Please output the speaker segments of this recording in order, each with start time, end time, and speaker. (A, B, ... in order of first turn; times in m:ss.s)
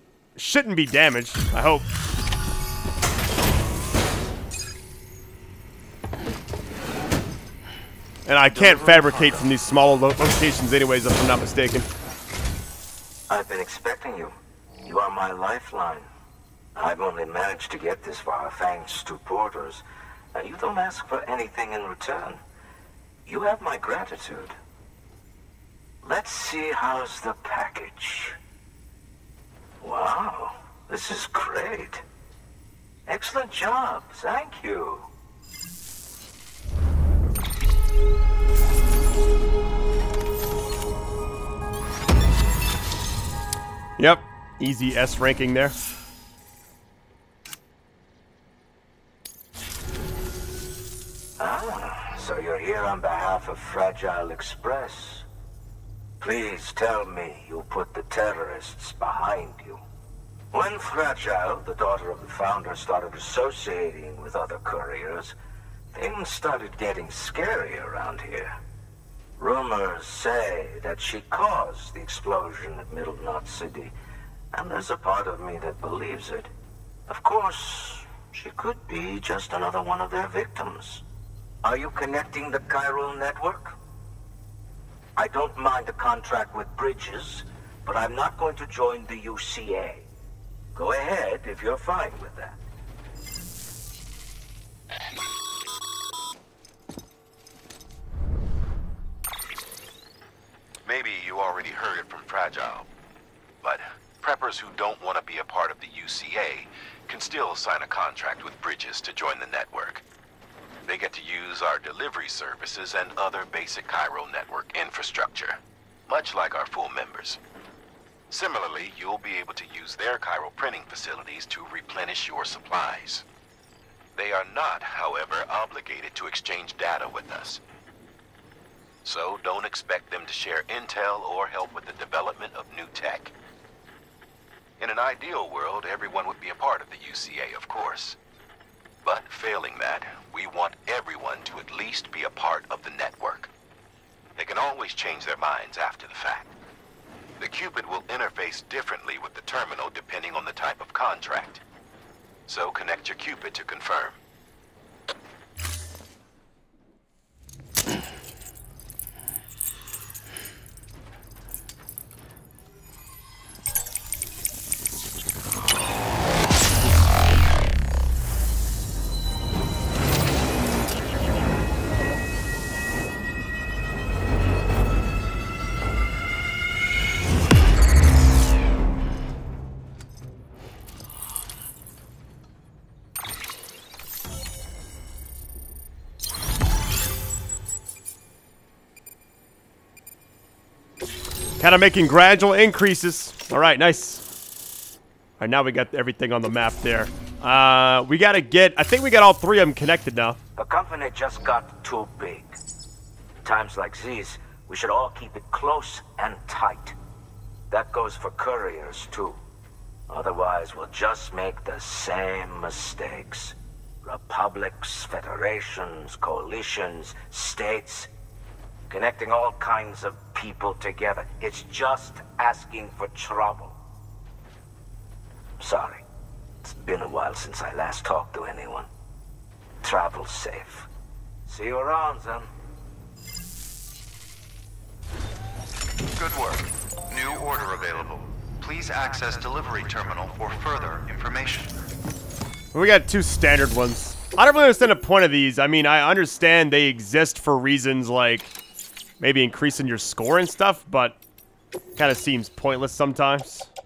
0:00.4-0:01.9 A
0:08.3-0:11.9 A
0:08.5-0:09.5 B
0:13.3-0:16.1 C
0:16.8-0:19.8 C
0:20.3-0:22.4 C
0:23.3-0:24.6 C
0:26.0-0:28.4 C
0:29.8-0:32.0 C
0:33.1-0:35.1 C
0:44.0-0:45.8 A
0:51.4-0:55.3 C
0:56.2-0:59.8 C
1:00.5-1:05.4 C
1:05.9-1:08.6 C
1:09.4-1:13.9 C
1:14.5-1:16.5 C
1:17.1-1:21.0 C
1:21.6-1:23.8 C
1:25.2-1:30.0 C
1:30.8-1:32.6 C
1:40.8-1:42.9 D
1:43.6-1:50.0 D
1:50.9-1:57.4 D
1:58.3-2:03.2 D
2:04.2-2:07.6 D
2:09.0-2:13.3 D
2:14.8-2:18.2 D
2:19.0-2:23.5 D
2:24.4-2:26.5 D
2:27.4-2:31.6 D
2:32.5-2:34.2 D
3:11.6-3:14.2 A
3:15.4-3:20.4 A
3:20.6-3:22.6 C
3:23.4-3:27.0 C
3:27.7-3:29.4 C
3:30.1-3:38.1 C
3:38.9-3:43.8 C
3:45.6-3:46.0 C
3:46.6-3:48.9 C
3:49.8-3:50.9 C
3:51.5-3:52.5 C
3:56.1-4:01.8 B
4:02.7-4:08.5 A
4:09.2-4:11.2 A
4:12.0-4:13.7 A